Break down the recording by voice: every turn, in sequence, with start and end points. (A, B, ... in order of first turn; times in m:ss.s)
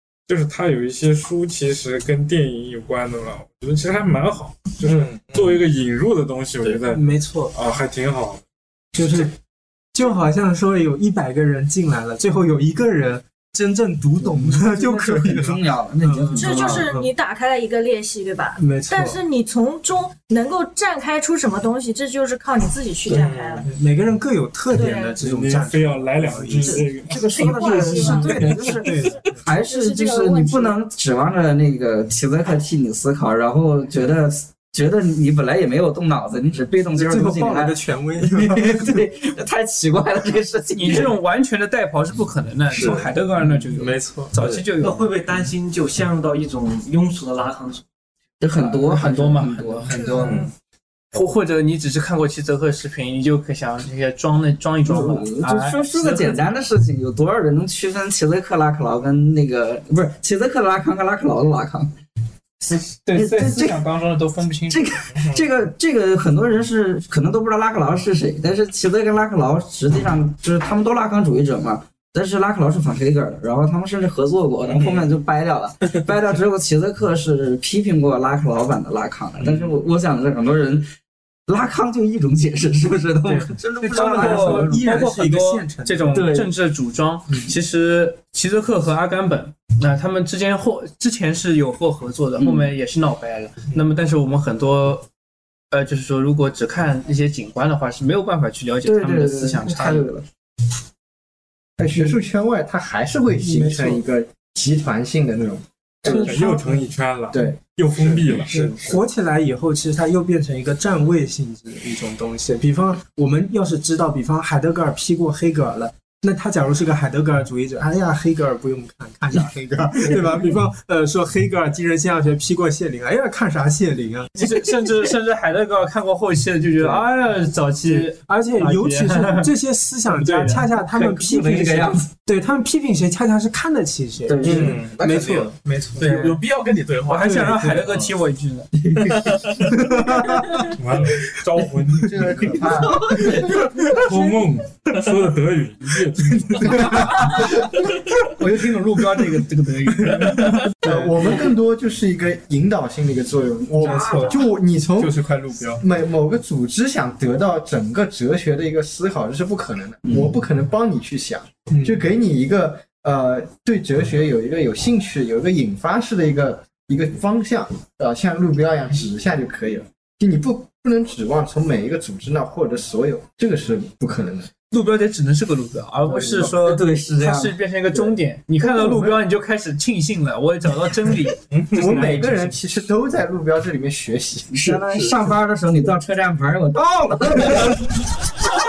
0:00.3-0:08.4 A
0:04.8-0:05.6 B
0:06.9-0:07.5 C
0:08.9-0:09.4 C
0:09.9-0:17.1 C
0:14.2-0:16.9 D
0:16.3-0:23.7 E
0:18.6-0:19.2 C
0:23.0-0:23.7 B
0:23.1-0:29.3 C
0:24.7-0:25.2 E
0:25.2-0:27.2 A
0:26.6-0:41.2 D
0:27.2-0:30.8 E
0:36.9-0:39.0 C
0:40.7-0:45.1 F
0:42.7-0:43.1 B
0:43.9-0:44.2 C
0:44.3-0:44.6 B
0:44.7-0:47.8 G
0:48.4-0:49.9 D
0:48.6-0:50.2 F
0:49.9-0:50.5 G
0:50.2-0:50.5 B
0:51.1-0:56.4 F
0:54.8-1:01.9 D
1:02.6-1:05.0 F
1:03.1-1:03.8 D
1:04.7-1:20.9 D
1:05.2-1:05.4 B
1:14.6-1:15.1 B
1:19.4-1:19.7 B
1:21.5-1:24.8 D
1:23.3-1:26.4 C
1:23.9-1:35.1 F
1:26.1-1:26.5 D
1:32.4-1:32.7 D
1:35.7-1:40.1 F
1:38.8-1:40.2 D
1:41.8-1:46.4 H
1:43.4-1:44.0 C
1:46.1-1:48.8 A
1:46.4-1:46.8 C
1:47.3-1:47.6 H
1:48.0-1:48.7 B
1:48.5-2:04.3 C
2:04.3-2:09.5 F
2:06.8-2:07.0 D
2:07.8-2:16.2 C
2:10.1-2:10.7 F
2:10.8-2:12.1 D
2:14.2-2:14.8 D
2:14.4-2:18.0 B
2:16.0-2:16.3 F
2:17.1-2:18.7 F
2:18.8-2:19.3 D
2:19.0-2:19.8 B
2:20.7-2:22.7 A
2:22.0-2:23.3 H
2:22.9-2:23.4 D
2:23.5-2:27.3 A
2:28.4-2:31.0 F
2:30.8-2:35.2 H
2:33.8-2:34.4 F
2:33.8-2:34.3 D
2:33.9-2:34.4 C
2:35.0-2:35.8 C
2:35.8-2:54.5 H
2:40.0-2:40.4 D
2:41.7-2:42.0 C
2:54.7-3:02.6 F
2:56.0-2:59.2 D
3:01.5-3:02.0 B
3:01.7-3:04.6 H
3:04.5-3:07.9 D
3:04.5-3:05.2 B